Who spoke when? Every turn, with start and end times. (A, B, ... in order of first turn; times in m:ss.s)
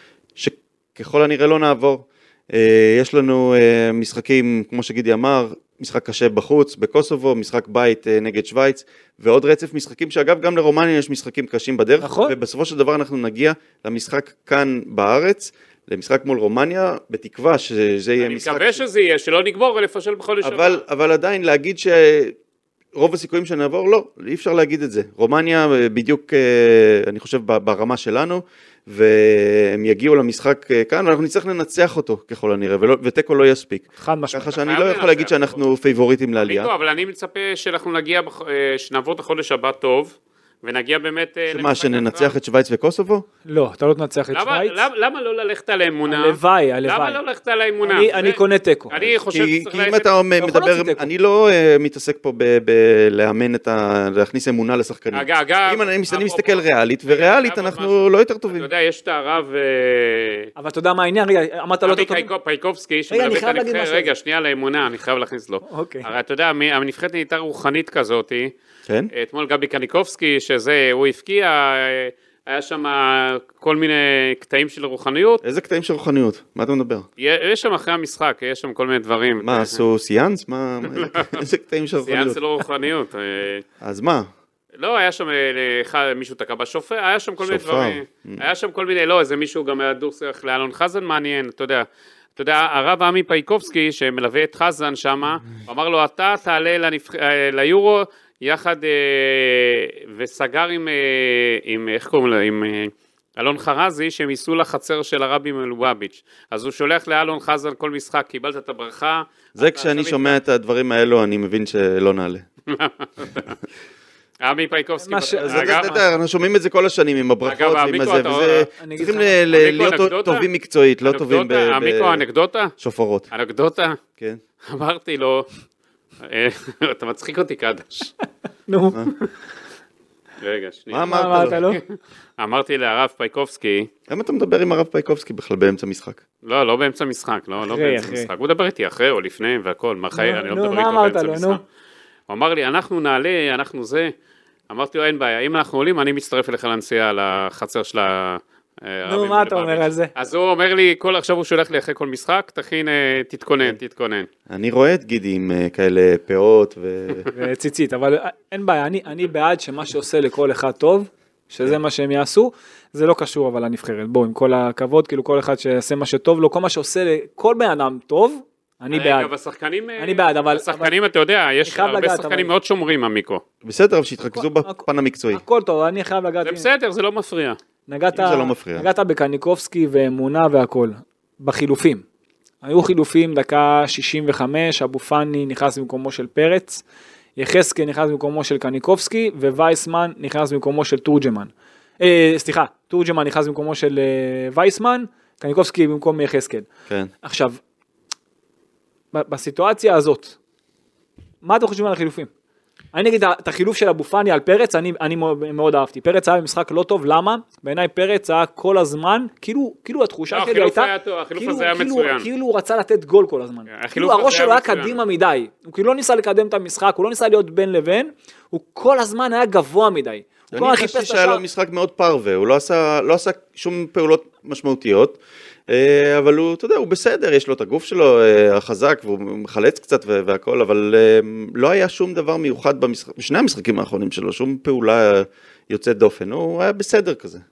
0:00.4-0:18.8 A
0:12.0-0:12.3 B
0:18.2-0:20.8 C
0:20.4-0:22.4 A
0:22.9-0:36.7 A
0:34.0-0:34.5 B
0:34.6-0:35.5 C
0:36.4-0:42.3 C
0:41.5-0:43.2 A
0:43.4-0:44.8 B
0:44.3-0:50.1 C
0:46.1-0:47.2 B
0:47.8-0:48.9 B
0:48.9-0:58.7 A
0:50.4-0:51.1 B
0:55.1-1:00.5 C
1:00.6-1:02.3 B
1:01.8-1:08.5 C
1:03.1-1:04.1 B
1:05.7-1:06.0 B
1:09.1-1:15.4 C
1:15.4-1:17.0 A
1:17.2-1:19.8 C
1:19.4-1:22.4 A
1:21.0-1:21.4 C
1:22.0-1:23.6 C
1:23.8-1:24.3 A
1:24.8-1:31.8 C
1:27.4-1:28.4 A
1:32.4-1:50.4 C
1:49.6-1:52.4 A
1:52.7-1:53.6 C
1:54.4-1:55.9 C
1:55.0-1:56.0 B
1:55.4-2:02.2 A
1:57.4-1:58.6 C
1:58.8-1:59.4 B
1:59.5-2:00.5 C
2:01.0-2:02.7 C
2:02.8-2:03.3 A
2:03.3-2:04.0 C
2:04.6-2:05.5 C
2:06.2-2:08.1 C
2:08.7-2:09.3 B
2:10.4-2:13.9 C
2:10.9-2:11.6 A
2:11.1-2:11.8 B
2:14.1-2:16.2 A
2:16.4-2:21.6 C
2:17.6-2:18.3 B
2:20.1-2:21.6 B
2:22.3-2:24.1 C
2:24.7-2:34.3 C
2:29.0-2:30.1 B
2:34.5-2:37.3 A
2:37.3-2:49.3 B
2:48.9-2:53.4 C
2:50.0-2:50.9 B
2:51.6-2:52.5 B
2:53.6-2:55.4 A
2:54.4-2:56.7 B
2:56.4-2:57.6 C
2:57.9-3:02.0 B
2:58.1-2:58.9 A
3:02.6-3:06.8 B
3:07.4-3:16.7 B
3:17.2-3:17.6 B
3:19.1-3:20.4 B
3:21.4-3:22.3 B
3:22.9-3:41.4 B
3:30.3-3:32.3 C
3:33.7-3:35.0 C
3:40.5-3:57.4 A